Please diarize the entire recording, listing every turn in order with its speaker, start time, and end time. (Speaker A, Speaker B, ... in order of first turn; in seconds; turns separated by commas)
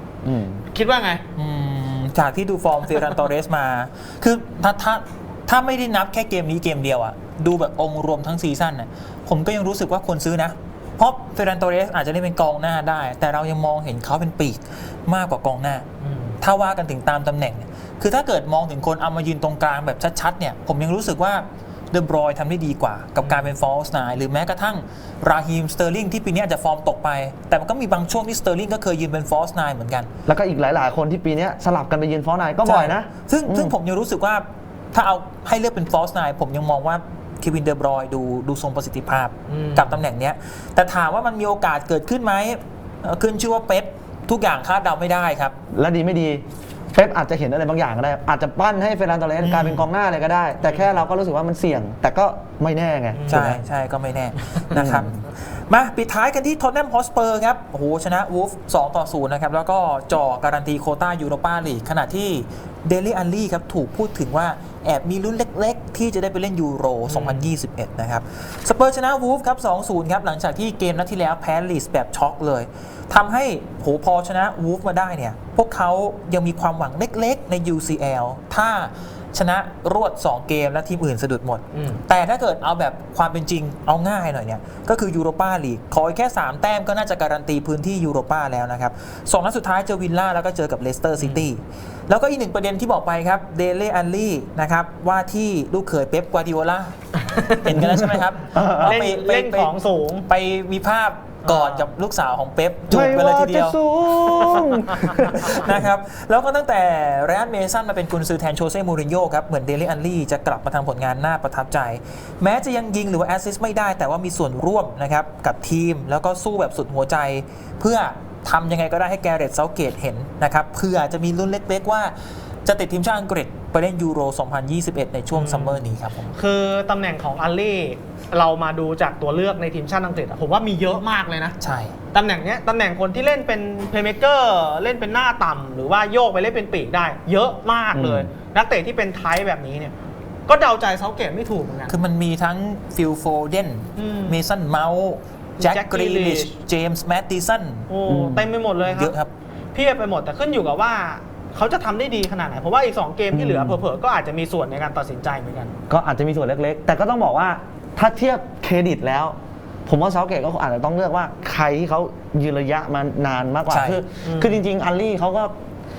Speaker A: 0.2-0.6, Speaker B: 0.7-1.2, Speaker C: 1.4-15.8, Speaker B: 16.0-16.4, Speaker C: 16.4-30.1, Speaker B: 23.2-23.5, Speaker A: 30.2-33.7, Speaker C: 32.6-45.5, Speaker B: 39.5-40.0, Speaker A: 45.7-53.6, Speaker C: 49.4-49.9, Speaker B: 53.1-53.5, Speaker C: 53.3-96.9, Speaker A: 54.7-55.2, Speaker B: 67.1-67.5, Speaker B: 81.7-82.0, Speaker B: 91.2-91.5, Speaker B: 97.2-97.5, Speaker C: 97.5-99.7, Speaker A: 97.7-99.0, Speaker B: 98.8-100.3, Speaker C: 100.3-122.1, Speaker B: 101.4-101.9, Speaker A: 102.9-105.8, Speaker C: 122.6-126.3, Speaker B: 125.3-131.5, Speaker C: 131.6-131.9, Speaker B: 132.1-139.9, Speaker A: 137.9-138.3, Speaker B: 140.5-141.9, Speaker C: 141.9-147.9, Speaker B: 144.0-144.4, Speaker B: 145.6-146.5, Speaker B: 147.9-149.1, Speaker A: 148.1-148.5, Speaker C: 148.8-149.3, Speaker B: 149.7-155.7, Speaker A: 153.3-153.8, Speaker A: 155.9-159.4, Speaker A: 159.9-165.5, Speaker C: 163.7-164.0, Speaker B: 164.2-164.6